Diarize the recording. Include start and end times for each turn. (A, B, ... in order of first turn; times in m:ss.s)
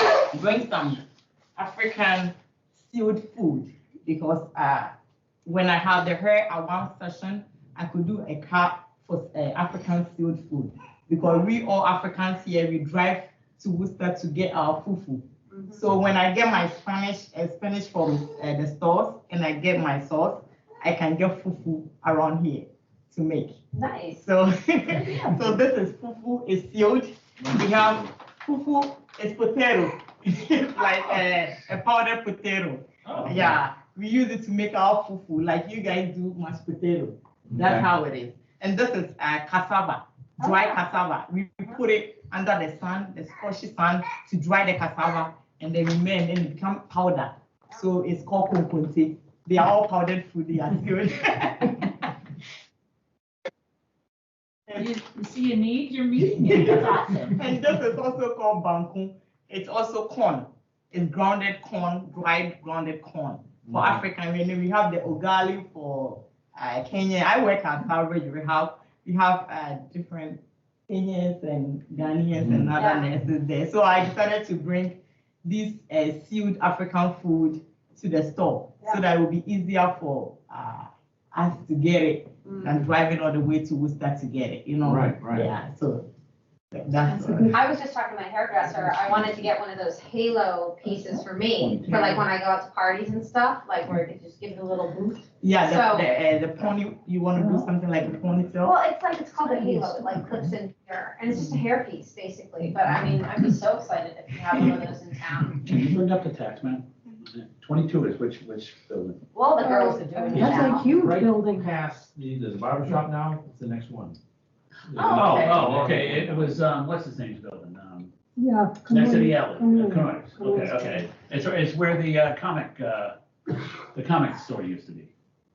0:00.3-0:01.0 A
0:01.6-0:04.9 A
0:05.4-0:23.6 A
0:15.5-0:15.8 B
0:23.7-0:24.2 B
0:24.2-0:52.1 A
0:24.9-0:25.4 B
0:27.6-0:27.9 C
0:33.1-0:33.5 D
0:37.5-0:37.8 C
0:40.4-0:40.8 B
0:54.8-0:56.9 E
0:56.6-1:26.0 A
0:56.7-0:57.3 B
1:03.6-1:04.0 C
1:12.4-1:12.7 C
1:12.8-1:13.1 B
1:22.4-1:22.9 B
1:24.8-1:25.5 C
1:26.7-1:27.6 A
1:27.1-1:27.6 F
1:27.5-1:36.1 B
1:28.7-1:29.4 D
1:31.0-1:31.2 F
1:31.6-1:32.2 D
1:31.9-1:32.2 A
1:35.4-1:38.8 A
1:37.3-1:37.7 F
1:38.2-1:38.4 D
1:38.6-1:45.6 B
1:39.8-1:40.1 F
1:45.6-1:49.2 D
1:49.3-1:50.9 B
1:49.6-1:51.7 F
1:50.3-1:54.2 C
1:54.9-1:56.6 C
1:55.0-1:55.6 B
1:55.0-1:58.1 D
1:58.4-2:01.1 F
1:58.9-2:03.2 D
2:03.9-2:05.1 D